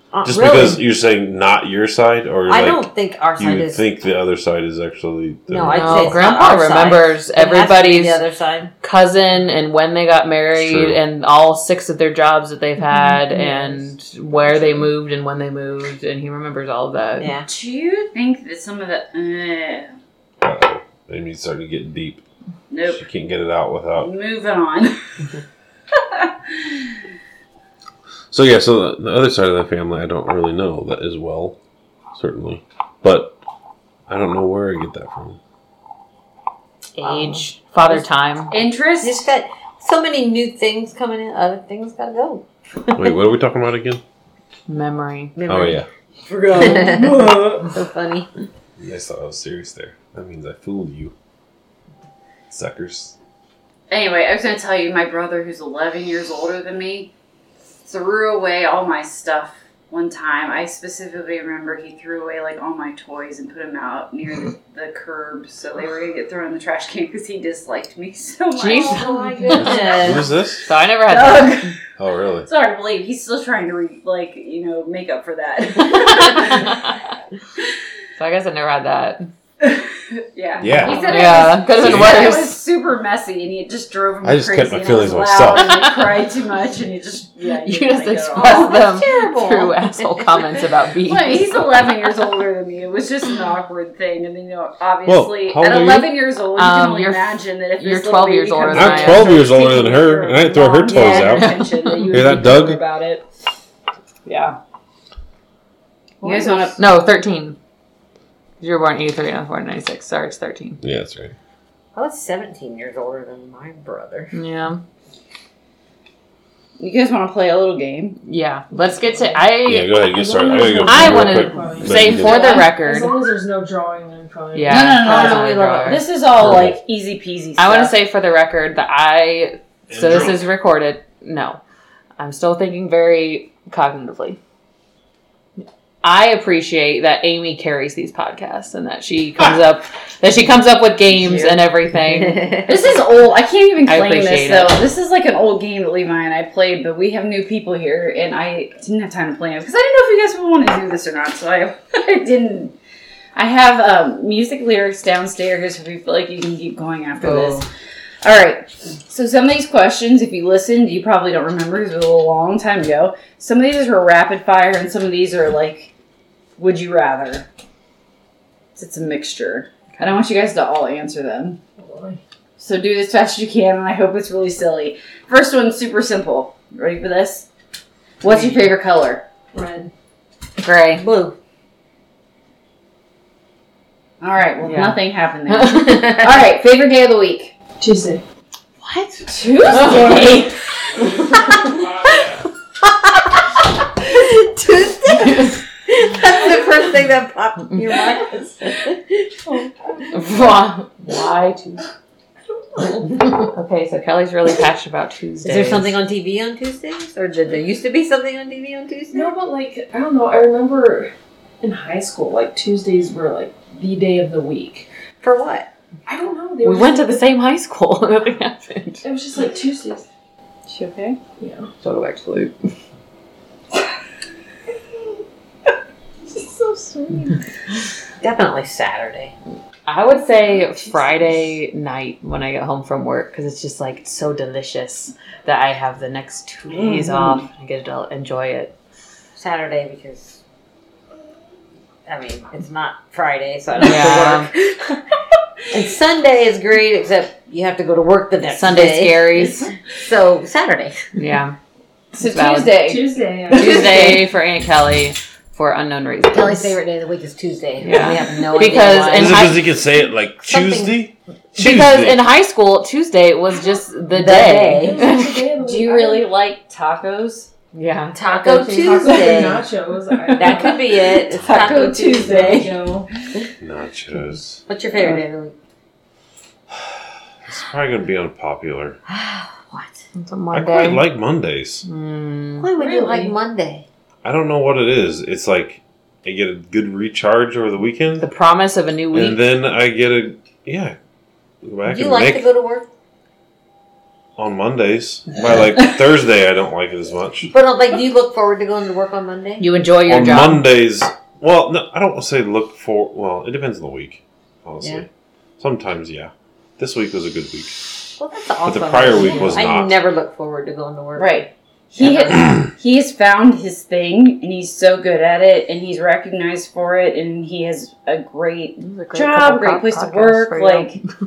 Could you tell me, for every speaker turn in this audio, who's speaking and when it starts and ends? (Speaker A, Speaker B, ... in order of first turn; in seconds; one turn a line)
Speaker A: 0.1-0.8
Speaker B: 0.2-2.8
Speaker A: 2.5-3.8
Speaker B: 3.4-6.2
Speaker A: 5.5-8.7
Speaker C: 5.7-8.2
Speaker C: 8.8-17.3
Speaker B: 10.6-11.0
Speaker A: 17.2-17.5
Speaker D: 17.4-19.9
Speaker B: 20.4-22.2
Speaker D: 22.7-23.0
Speaker B: 22.9-24.1
Speaker D: 24.0-24.9
Speaker D: 25.9-26.7
Speaker B: 28.3-31.6
Speaker B: 32.1-33.4
Speaker B: 34.1-35.4
Speaker C: 37.0-38.5
Speaker A: 37.0-37.5
Speaker D: 38.5-39.3
Speaker A: 39.0-43.2
Speaker B: 42.9-44.0
Speaker C: 44.7-45.4
Speaker A: 45.4-45.8
Speaker B: 45.5-45.9
Speaker E: 46.3-47.6
Speaker A: 46.5-48.3
Speaker B: 48.8-51.1
Speaker B: 52.5-53.1
Speaker D: 53.9-57.1
Speaker D: 57.8-69.1
Speaker C: 68.5-69.1
Speaker A: 68.7-70.3
Speaker E: 68.9-70.1
Speaker B: 69.6-70.7
Speaker C: 70.6-71.7
Speaker D: 71.0-71.7
Speaker B: 72.0-72.5
Speaker D: 72.5-76.8
Speaker C: 76.2-76.9
Speaker C: 78.2-79.3
Speaker D: 79.6-88.8
Speaker B: 80.6-82.4
Speaker C: 81.0-82.6
Speaker B: 84.2-85.8
Speaker C: 85.5-86.0
Speaker C: 87.6-91.8
Speaker A: 88.3-90.6
Speaker D: 91.0-102.6
Speaker B: 95.0-96.1
Speaker C: 96.5-99.4
Speaker B: 98.7-102.8
Speaker C: 101.3-102.0
Speaker E: 101.7-103.2
Speaker D: 104.2-104.6
Speaker A: 106.2-106.7
Speaker D: 106.2-106.8
Speaker C: 106.7-107.6
Speaker C: 108.6-110.8
Speaker B: 110.8-111.3
Speaker A: 111.9-114.3
Speaker C: 114.3-114.8
Speaker D: 116.8-118.2
Speaker C: 118.2-120.0
Speaker B: 119.6-122.7
Speaker E: 120.0-125.0
Speaker C: 120.8-123.1
Speaker C: 124.5-126.0
Speaker D: 124.7-127.9
Speaker A: 125.0-126.0
Speaker B: 126.4-126.8
Speaker C: 127.6-131.6
Speaker B: 129.9-130.4
Speaker C: 132.2-134.4
Speaker C: 136.0-142.7
Speaker D: 141.1-141.6
Speaker D: 142.6-152.7
Speaker C: 143.8-144.8
Speaker D: 153.3-157.7
Speaker A: 157.2-157.5
Speaker D: 158.2-165.9
Speaker D: 166.6-167.5
Speaker D: 168.8-171.6
Speaker E: 171.8-172.2
Speaker D: 172.6-177.5
Speaker D: 178.2-179.2
Speaker C: 178.3-178.6
Speaker E: 179.5-179.9
Speaker C: 180.6-181.0
Speaker A: 180.9-181.4
Speaker D: 184.2-187.5
Speaker C: 184.6-186.2
Speaker E: 187.8-188.2
Speaker A: 188.8-189.1
Speaker D: 189.3-191.2
Speaker C: 189.7-190.2
Speaker A: 192.8-199.7
Speaker C: 195.1-195.6
Speaker C: 200.1-201.8
Speaker E: 202.8-203.4
Speaker C: 203.2-206.0
Speaker A: 205.4-209.3
Speaker E: 209.1-214.9
Speaker A: 215.2-215.7
Speaker E: 216.1-217.2
Speaker C: 216.6-219.0
Speaker E: 219.0-220.1
Speaker D: 220.7-221.2
Speaker E: 221.4-221.7
Speaker C: 221.8-222.5
Speaker E: 226.3-227.4
Speaker A: 228.2-229.3
Speaker C: 229.8-238.7
Speaker E: 230.4-231.5
Speaker D: 236.7-237.4
Speaker A: 239.3-240.4
Speaker A: 242.1-245.0
Speaker C: 243.8-244.5
Speaker A: 245.7-251.0
Speaker C: 248.4-249.7
Speaker D: 249.4-249.7
Speaker C: 251.1-251.6
Speaker D: 252.1-254.3
Speaker C: 252.2-252.8
Speaker E: 252.8-254.2
Speaker C: 253.5-256.8
Speaker A: 256.3-259.6
Speaker C: 257.8-259.7
Speaker B: 259.1-262.2
Speaker A: 260.4-261.0
Speaker C: 261.6-265.5
Speaker A: 264.1-265.0
Speaker E: 264.7-266.3
Speaker D: 265.6-267.5
Speaker C: 267.7-269.3
Speaker A: 268.1-269.7
Speaker E: 268.5-273.0
Speaker A: 270.4-272.7
Speaker D: 270.4-273.1
Speaker B: 273.6-274.6
Speaker A: 274.6-275.5
Speaker B: 277.4-279.0
Speaker A: 279.1-280.0
Speaker C: 280.1-281.1
Speaker B: 280.5-281.8
Speaker C: 281.8-282.7
Speaker A: 282.6-283.8
Speaker D: 282.8-283.3
Speaker B: 284.2-288.3
Speaker C: 288.2-289.4
Speaker B: 289.1-291.0
Speaker B: 291.6-292.4
Speaker A: 291.9-292.9
Speaker B: 294.4-297.5
Speaker A: 297.5-299.7
Speaker C: 299.6-300.6
Speaker B: 300.1-305.1
Speaker B: 305.6-307.8
Speaker A: 308.2-311.5
Speaker B: 308.6-310.0
Speaker D: 311.2-321.0
Speaker A: 312.0-312.4
Speaker C: 318.8-320.9